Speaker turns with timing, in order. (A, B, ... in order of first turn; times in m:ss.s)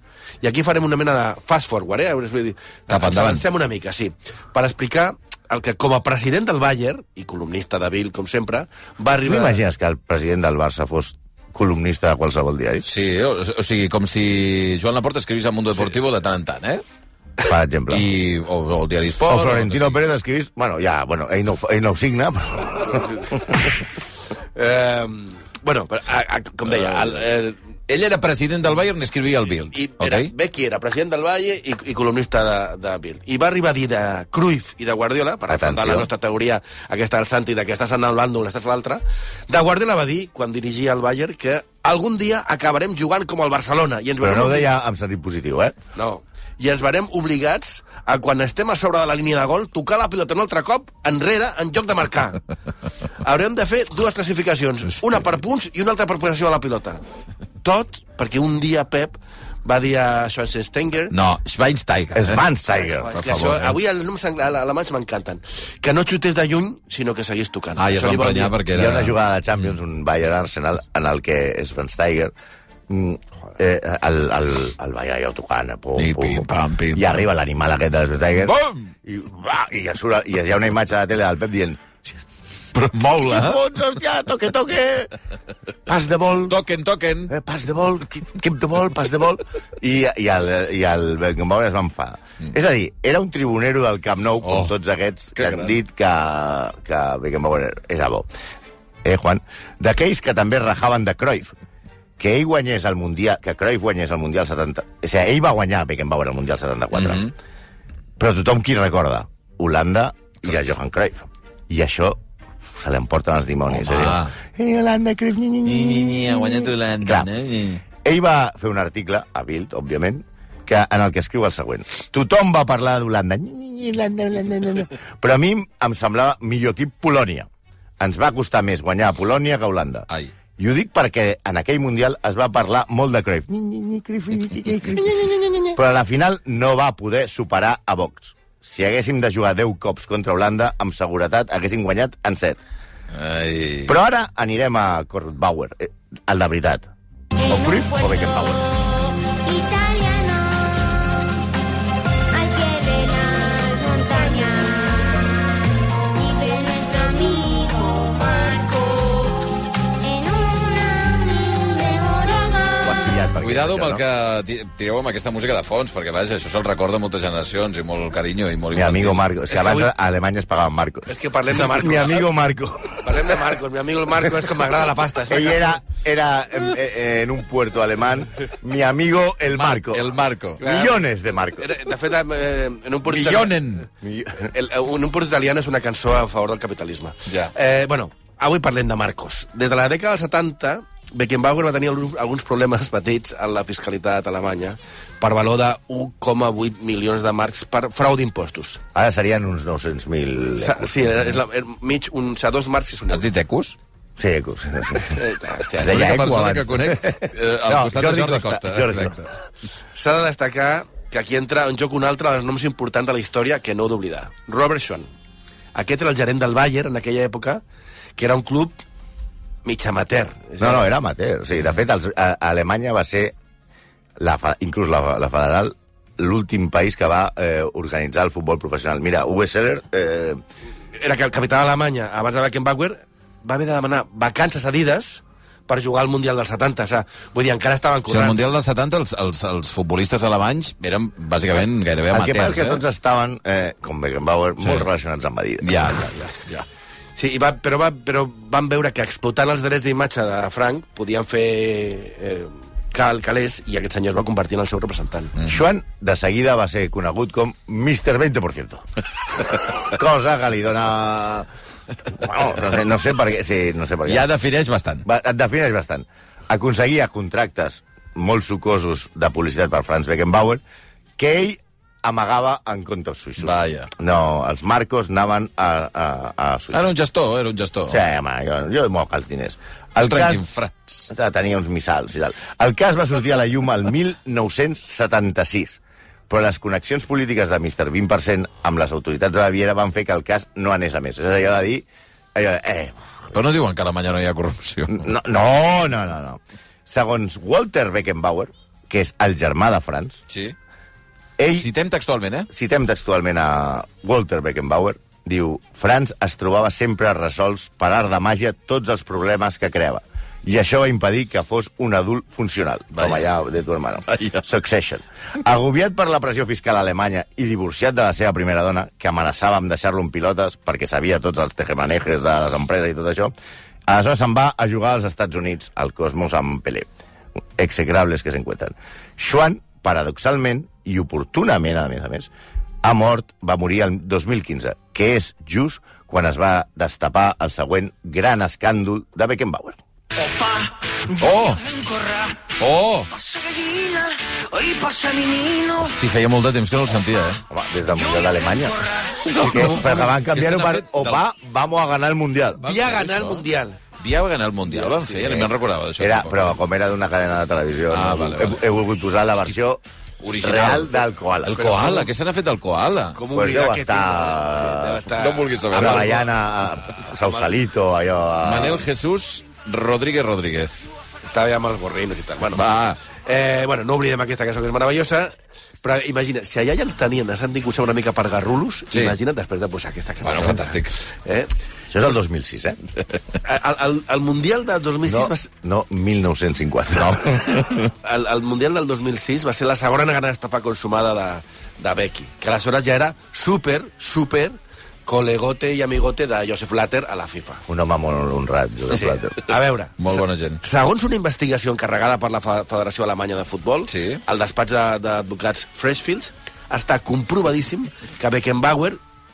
0:00.4-0:09.6 A
0:02.9-0:03.4 B
0:09.2-0:12.9 C
0:12.8-0:16.8 B
0:17.4-0:18.1 C
0:17.9-0:20.0 B
0:19.2-0:23.6 C
0:24.5-0:27.6 A
0:27.9-0:30.3 B
0:29.7-0:44.7 A
0:35.5-0:36.1 C
0:44.2-0:45.8 C
0:45.9-0:52.4 A
0:53.2-0:57.0 A
0:57.6-1:01.1 A
1:01.1-1:02.4 B
1:02.1-1:03.4 C
1:02.9-1:08.6 A
1:03.2-1:03.7 B
1:07.8-1:09.2 B
1:08.7-1:12.3 C
1:12.9-1:22.2 C
1:16.0-1:17.2 B
1:18.4-1:18.9 B
1:22.7-1:23.6 B
1:23.0-1:25.1 C
1:25.9-1:26.6 C
1:26.5-1:27.3 B
1:27.3-1:38.3 C
1:34.4-1:34.7 B
1:35.4-1:35.8 B
1:39.0-1:41.5 C
1:42.2-1:47.3 C
1:46.9-1:47.3 B
1:48.2-1:52.2 C
1:52.8-1:57.3 C
1:53.7-1:54.3 B
1:55.6-1:57.8 B
1:58.0-2:07.5 C
2:08.0-2:22.6 C
2:23.1-2:24.0 B
2:23.8-2:26.9 C
2:27.4-2:31.2 D
2:27.5-2:28.6 C
2:32.3-2:39.5 D
2:40.0-2:43.1 D
2:42.8-2:44.0 C
2:43.4-2:49.2 B
2:48.7-2:53.3 C
2:49.5-2:49.9 A
2:51.1-2:52.2 A
2:53.0-2:55.8 A
2:55.3-3:01.7 C
2:59.5-3:00.6 B
3:00.6-3:01.0 A
3:01.6-3:03.6 A
3:03.1-3:03.9 B
3:04.0-3:04.5 C
3:04.4-3:18.8 A
3:07.3-3:07.5 B
3:18.9-3:20.9 C
3:20.6-3:23.3 A
3:23.1-3:23.8 B
3:24.2-3:25.2 C
3:25.0-3:26.0 A
3:25.8-3:29.2 C
3:25.8-3:29.3 B
3:29.9-3:35.1 A
3:35.7-3:37.6 A
3:38.2-3:38.8 A
3:39.6-3:40.9 A
3:40.6-3:43.3 C
3:44.2-3:50.4 C
3:50.9-3:58.4 A
3:58.1-4:02.8 B
4:02.1-4:06.0 C
4:04.6-4:04.9 B
4:05.6-4:06.6 B
4:07.2-4:15.3 A
4:15.4-4:21.5 C
4:22.1-4:24.3 C
4:24.0-4:25.0 B
4:25.0-4:30.6 C
4:31.2-4:36.9 C
4:33.4-4:33.9 B
4:36.7-4:38.0 B
4:37.9-4:40.4 C
4:40.0-4:41.1 B
4:41.1-4:53.0 C
4:53.3-4:55.1 B
4:54.9-5:00.2 C
5:00.3-5:00.6 B
5:01.4-5:01.7 C
5:01.5-5:02.5 B
5:02.5-5:23.3 C
5:13.0-5:13.2 B
5:14.1-5:14.4 B
5:23.9-5:26.9 C
5:27.6-5:32.3 C
5:32.8-5:39.8 C
5:41.1-5:41.8 B
5:42.6-5:43.2 B
5:44.6-5:45.3 A
5:45.7-5:47.4 B
5:47.5-5:52.6 C
5:49.2-5:51.2 B
5:52.6-5:53.4 B
5:52.6-5:53.8 A
5:54.0-5:56.6 B
5:54.7-5:55.4 A
5:56.0-5:59.8 C
5:57.9-5:58.7 B
6:00.2-6:03.2 B
6:00.4-6:01.7 C
6:01.6-6:02.1 A
6:03.1-6:06.2 A
6:03.3-6:05.0 C
6:05.2-6:06.2 B
6:05.7-6:08.9 C
6:07.2-6:07.4 A
6:08.4-6:10.9 B
6:11.3-6:12.6 A
6:12.5-6:13.0 B
6:13.2-6:21.5 A
6:20.2-6:20.9 B
6:21.9-6:22.8 C
6:23.4-6:25.5 A
6:25.0-6:27.7 C
6:27.4-6:27.9 B
6:27.9-6:37.6 A
6:37.7-6:39.4 C
6:38.9-6:49.0 A
6:40.0-6:40.6 B
6:43.9-6:44.2 B